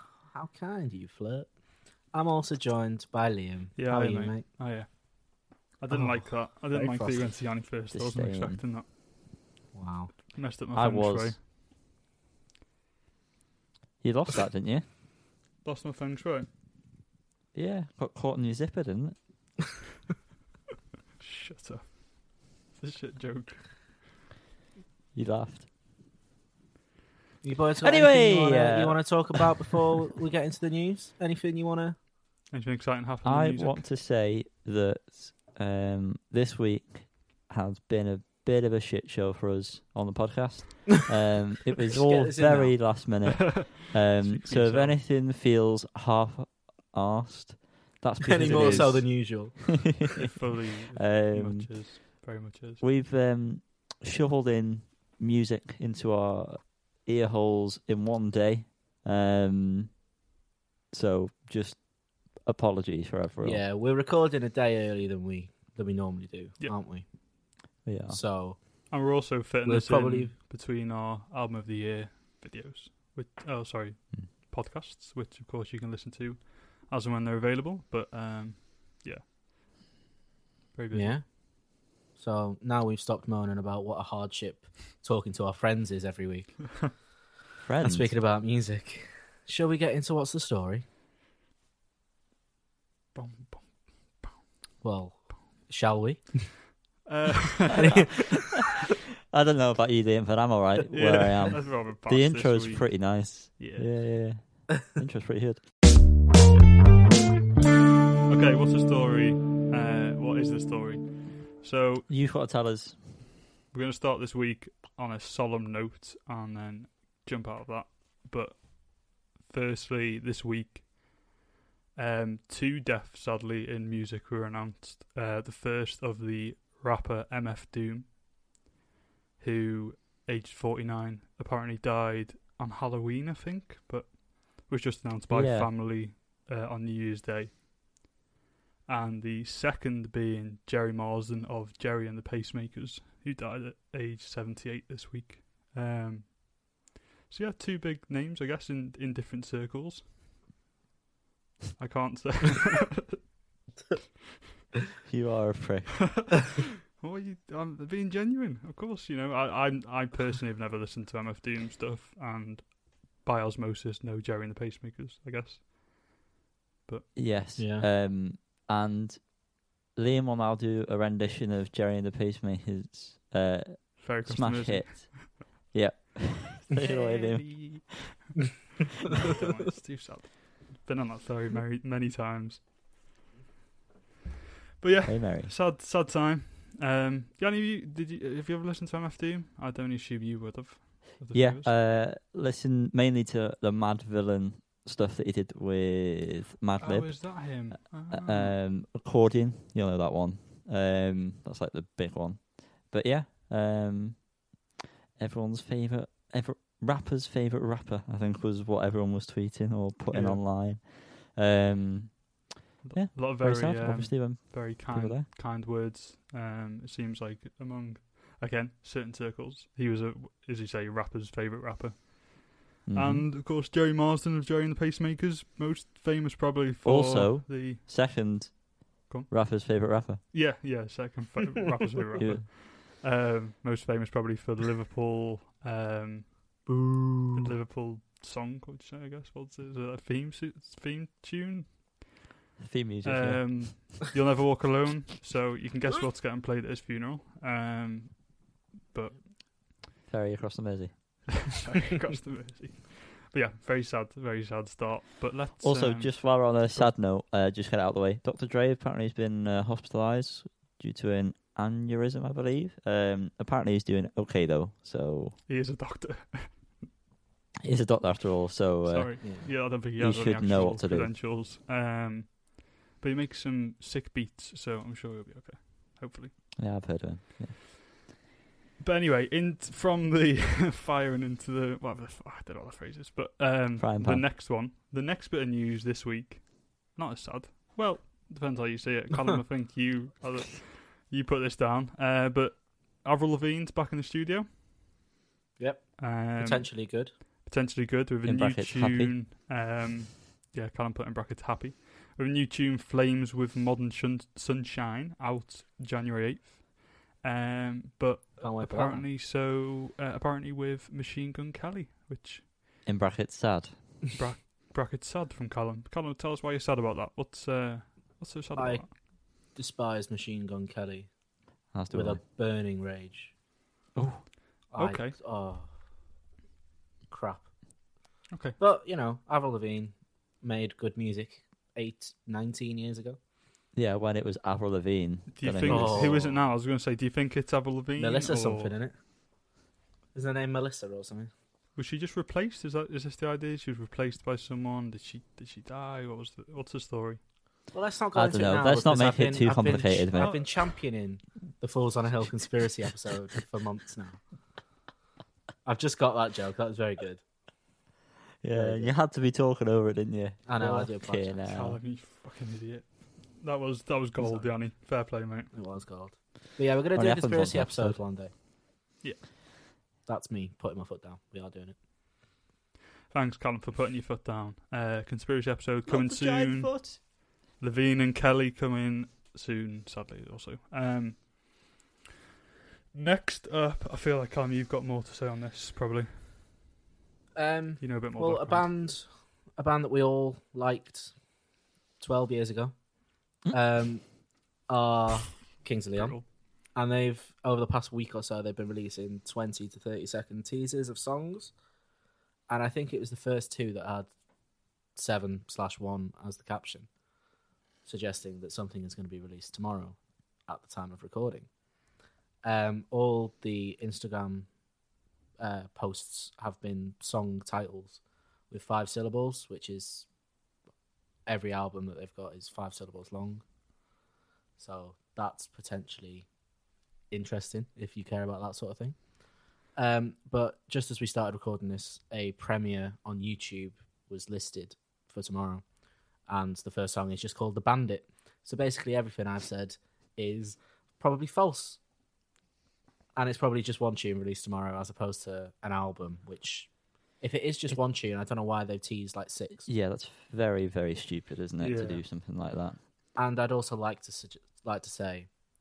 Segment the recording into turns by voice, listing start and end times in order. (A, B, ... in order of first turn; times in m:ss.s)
0:00.3-0:01.5 A
0:02.1-0:04.4 A
0:03.8-0:08.9 B
0:05.9-0:07.3 A
0:07.9-0:08.6 C
0:09.7-0:10.1 A
0:10.3-0:11.4 B
0:10.7-0:11.4 C
0:14.0-0:14.8 C
0:15.6-0:16.5 B
0:17.5-0:19.2 C
0:21.2-0:24.0 B
0:25.1-0:25.7 C
0:27.4-0:32.0 A
0:27.8-0:29.5 C
0:32.5-0:33.8 B
0:33.2-0:50.3 C
0:41.9-0:42.8 A
0:43.3-0:43.6 B
0:44.2-0:45.0 B
0:48.2-0:50.1 A
0:48.4-0:49.0 B
0:50.2-0:52.8 B
0:50.9-0:52.2 C
0:52.8-1:00.0 C
1:00.9-1:03.6 C
1:03.4-1:07.1 A
1:07.8-1:08.2 C
1:08.1-1:08.9 A
1:08.9-1:19.3 B
1:09.6-1:10.3 A
1:20.7-1:21.2 B
1:20.9-1:21.4 A
1:22.1-1:27.0 A
1:27.6-1:28.2 C
1:27.8-1:30.8 A
1:33.2-1:34.4 B
1:34.8-1:36.4 A
1:37.1-1:38.2 B
1:37.7-1:38.1 A
1:39.3-1:45.6 C
1:40.9-1:44.3 B
1:48.3-1:52.1 B
1:52.1-1:53.0 C
1:53.7-2:01.2 B
2:02.0-2:08.1 B
2:09.4-2:17.6 B
2:15.3-2:15.7 C
2:18.9-2:26.7 B
2:27.3-2:30.1 B
2:31.8-2:33.2 B
2:35.0-2:36.3 C
2:36.2-2:45.6 B
2:47.2-2:58.0 C
2:47.6-2:47.9 A
2:54.0-2:55.3 B
2:56.8-2:58.6 B
2:59.2-3:02.7 B
3:04.8-3:11.7 B
3:05.1-3:05.5 C
3:11.3-3:24.3 C
3:16.8-3:18.5 B
3:25.2-3:32.4 C
3:30.1-3:30.4 B
3:32.8-3:47.8 B
3:32.9-3:35.3 C
3:42.9-3:43.3 C
3:46.8-3:48.7 C
3:49.1-3:56.7 B
3:49.3-3:50.2 C
3:52.2-3:52.5 C
3:56.7-3:57.5 A
3:57.4-4:02.0 B
4:02.6-4:03.8 C
4:03.0-4:09.3 B
4:10.1-4:11.4 C
4:11.5-4:16.9 B
4:15.6-4:25.4 C
4:25.5-4:26.8 B
4:27.6-4:31.2 C
4:28.8-4:36.4 B
4:36.6-4:37.6 C
4:38.8-4:54.5 B
4:43.8-4:44.3 C
4:55.6-4:57.1 A
4:56.0-5:12.5 B
4:58.2-4:59.2 C
5:08.4-5:09.1 A
5:12.8-5:14.0 C
5:14.1-5:18.9 B
5:18.6-5:21.1 A
5:21.7-5:22.2 C
5:21.9-5:23.3 A
5:24.0-5:24.3 C
5:24.7-5:25.7 A
5:24.8-5:25.2 B
5:27.1-5:27.5 A
5:28.3-5:28.6 B
5:28.6-5:33.2 A
5:33.7-5:36.2 C
5:35.4-5:38.8 B
5:35.6-5:36.4 A
5:38.0-5:39.0 A
5:40.1-5:41.3 A
5:41.8-5:47.2 B
5:47.7-5:54.2 A
5:48.2-5:50.6 C
5:50.2-5:50.4 B
5:55.6-5:57.2 A
5:58.4-6:01.8 C
5:58.5-5:58.9 A
6:00.5-6:01.5 A
6:01.4-6:05.5 B
6:04.2-6:04.5 A
6:05.5-6:08.3 A
6:06.9-6:08.0 C
6:10.0-6:11.8 A
6:13.1-6:17.0 B
6:15.9-6:17.0 C
6:17.6-6:21.3 B
6:22.9-6:26.3 B
6:27.4-6:31.2 A
6:27.8-6:28.7 B
6:32.0-6:32.8 A
6:33.5-6:34.0 A
6:34.7-6:41.5 A
6:35.9-6:36.2 B
6:42.5-6:44.1 A
6:45.0-6:46.9 A
6:47.8-6:51.5 A
6:52.4-6:54.5 A
6:55.4-7:00.1 A
7:01.3-7:03.4 A
7:04.6-7:06.3 A
7:07.1-7:09.1 A
7:09.8-7:15.6 A
7:16.2-7:21.8 A
7:23.2-7:29.7 A
7:29.7-7:32.8 C
7:31.6-7:32.0 B
7:33.2-7:35.3 A